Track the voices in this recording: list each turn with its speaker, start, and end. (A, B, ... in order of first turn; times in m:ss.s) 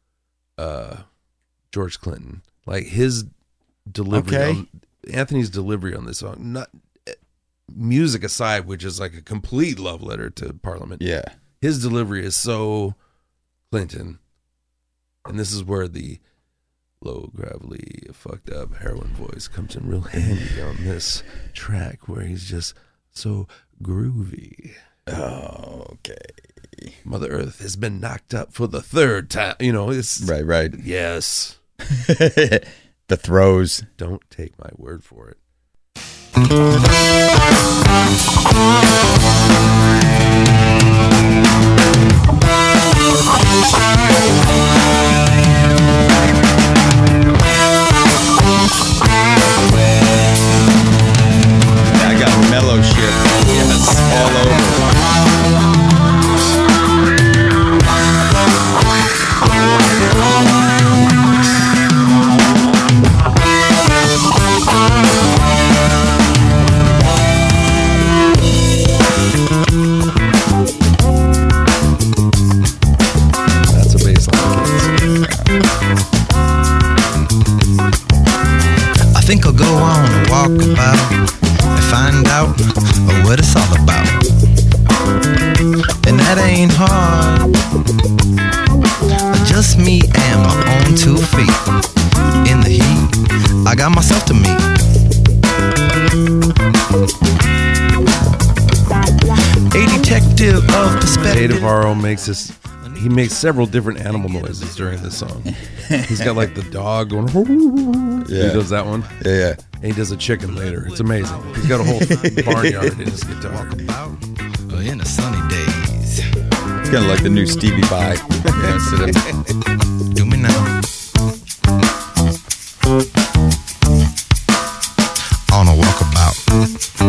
0:00.6-0:01.0 A
0:01.7-0:03.3 A
0:03.9-0:07.2 A
0:04.1-0:04.6 B
0:07.7-0:11.0 A
0:11.0-0:11.3 B
0:11.6-0:13.0 A
0:13.7-0:14.2 A
0:15.3-0:16.2 A
0:17.0-0:24.8 A
0:25.1-0:27.0 B
0:27.0-0:31.6 A
0:30.2-0:30.8 B
0:31.9-0:33.9 B
0:34.0-0:35.4 A
0:51.9-0:54.9 B
0:53.5-0:54.6 A
1:13.6-1:15.2 A
1:19.2-1:21.2 C
1:21.8-1:24.2 C
1:26.0-1:27.5 C
1:29.3-1:31.6 C
1:32.4-1:33.1 C
1:33.6-1:34.6 C
1:39.7-1:41.8 C
1:41.2-1:49.1 A
1:42.7-1:45.4 C
1:45.8-1:46.5 B
1:48.2-1:48.7 B
1:49.2-1:49.6 B
1:49.8-1:53.9 A
1:50.5-1:56.2 C
1:51.8-1:53.0 B
1:56.9-1:59.3 B
2:00.1-2:00.8 C
2:05.5-2:06.4 C